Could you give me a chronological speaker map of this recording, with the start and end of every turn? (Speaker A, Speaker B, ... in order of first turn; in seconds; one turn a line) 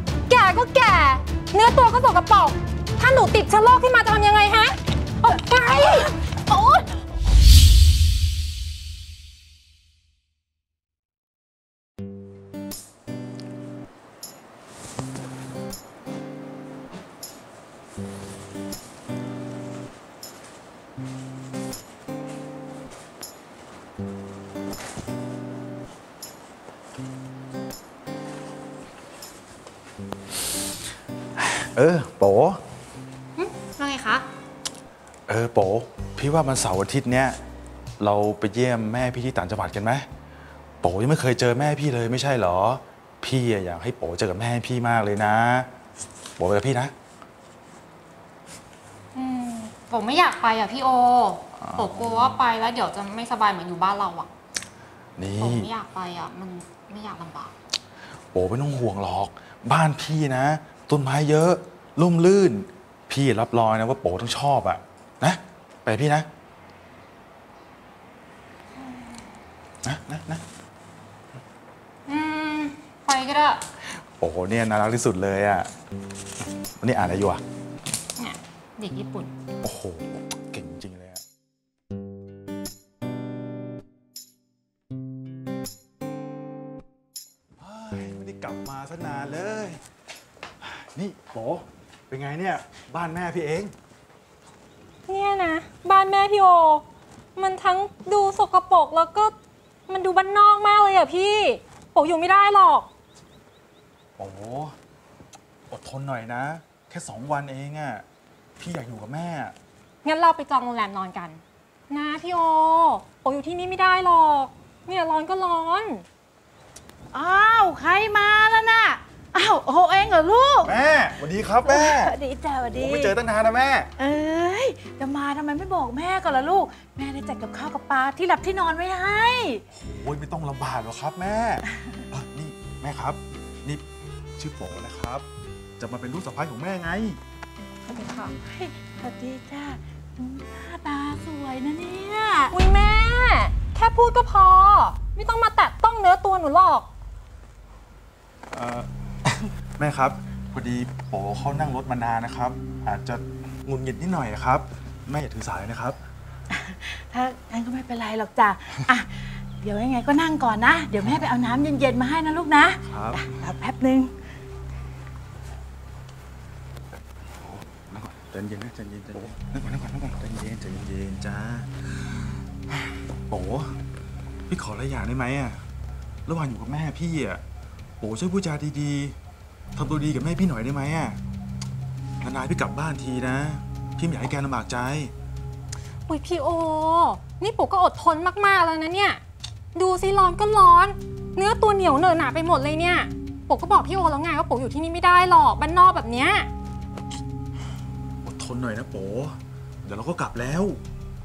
Speaker A: 0.3-6.1
Speaker B: 5.7-6.9
Speaker C: 31.4-32.6
Speaker A: 33.4-34.2
Speaker C: 35.3-37.4
Speaker C: 38.0-40.0
Speaker C: 40.8-45.7
Speaker C: 46.4-46.9
Speaker A: 49.1-54.3
Speaker C: 51.6-52.1
Speaker C: 55.2-55.7
Speaker A: 55.4-57.5
Speaker C: 58.3-66.3
Speaker C: 69.8-70.4
Speaker A: 72.1-73.6
Speaker C: 74.2-75.7
Speaker C: 76.8-77.4
Speaker A: 78.2-79.3
Speaker C: 79.6-81.2
Speaker C: 87.6-89.8
Speaker C: 90.6-93.7
Speaker A: 95.1-96.8
Speaker A: 97.4-99.3
Speaker A: 99.9-102.9
Speaker C: 104.2-104.8
Speaker C: 105.7-108.0
Speaker C: 108.6-109.5
Speaker A: 110.0-116.0
Speaker B: 117.1-120.7
Speaker C: 120.6-122.1
Speaker B: 121.7-123.1
Speaker C: 122.7-123.9
Speaker B: 124.0-129.6
Speaker C: 129.7-133.8
Speaker C: 134.4-135.2
Speaker C: 135.8-137.2
Speaker A: 137.9-138.4
Speaker B: 138.4-142.5
Speaker A: 142.5-146.9
Speaker C: 148.5-156.0
Speaker B: 156.5-164.1
Speaker C: 162.9-163.3
Speaker C: 167.4-171.9
Speaker C: 172.7-173.8
Speaker C: 174.5-175.6
Speaker C: 176.3-177.4
Speaker C: 178.0-179.2
Speaker C: 179.8-181.2
Speaker C: 182.2-185.1
Speaker A: 186.1-189.2
Speaker A: 189.8-196.5
Speaker C: 198.2-200.8